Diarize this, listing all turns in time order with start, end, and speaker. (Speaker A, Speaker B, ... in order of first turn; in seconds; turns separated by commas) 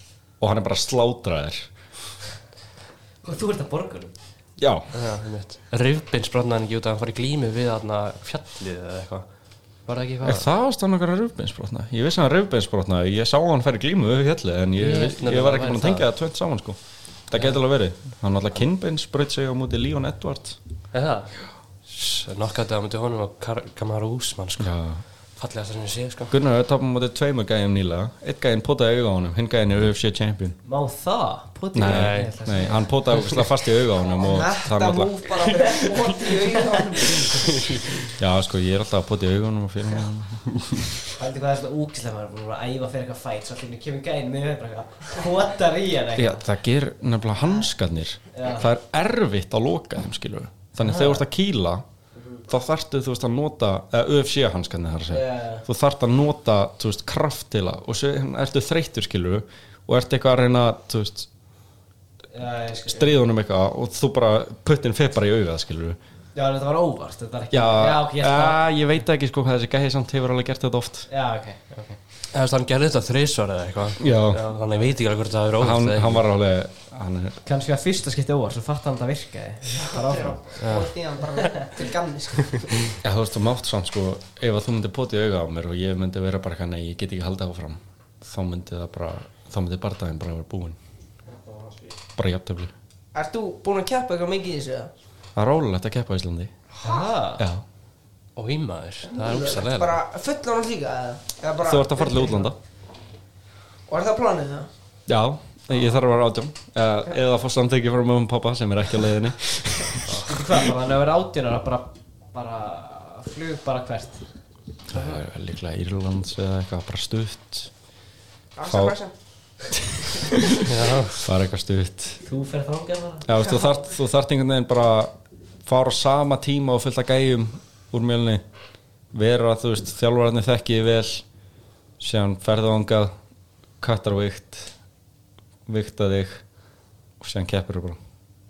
Speaker A: 0.4-1.7, Speaker B: 3.2-4.1, Speaker A: 4.6-4.9, Speaker C: 4.9-9.2, Speaker C: 9.8-10.5, Speaker A: 10.2-16.8, Speaker C: 14.8-16.1, Speaker A: 17.3-20.6, Speaker C: 20.9-24.7, Speaker A: 24.6-25.0, Speaker C: 25.4-26.3, Speaker A: 26.3-30.6, Speaker B: 30.6-33.4, Speaker A: 31.7-35.6, Speaker C: 31.8-32.3, Speaker D: 34.1-37.6, Speaker B: 36.2-36.5, Speaker A: 38.1-40.9, Speaker B: 41.1-46.5, Speaker A: 46.1-51.8, Speaker B: 48.3-48.7, Speaker B: 50.8-51.2, Speaker B: 52.1-52.4, Speaker A: 52.5-61.3, Speaker B: 55.1-55.7, Speaker B: 62.3-63.2, Speaker A: 62.9-66.0, Speaker B: 66.3-68.6, Speaker A: 67.5-71.1, Speaker B: 71.1-72.0, Speaker C: 72.3-76.2, Speaker A: 74.0-74.4, Speaker A: 75.6-77.4, Speaker B: 77.4-80.7, Speaker D: 79.7-83.0, Speaker C: 80.6-80.9, Speaker A: 83.0-90.8, Speaker B: 91.3-91.9, Speaker A: 92.2-92.7, Speaker D: 93.1-94.9, Speaker A: 95.3-96.5, Speaker B: 96.8-97.4, Speaker A: 97.4-97.6, Speaker C: 98.3-100.0, Speaker D: 99.1-102.5, Speaker A: 101.6-102.6, Speaker D: 103.9-104.7, Speaker A: 105.1-110.5, Speaker B: 110.1-114.2, Speaker A: 114.9-117.7, Speaker D: 118.5-119.1, Speaker A: 118.6-119.0, Speaker A: 119.7-122.2, Speaker C: 120.6-121.3, Speaker B: 122.2-123.3, Speaker A: 123.2-125.1, Speaker A: 125.6-128.4, Speaker A: 129.1-131.2, Speaker A: 132.0-133.1, Speaker A: 133.8-134.7, Speaker A: 135.7-136.4, Speaker A: 137.2-138.0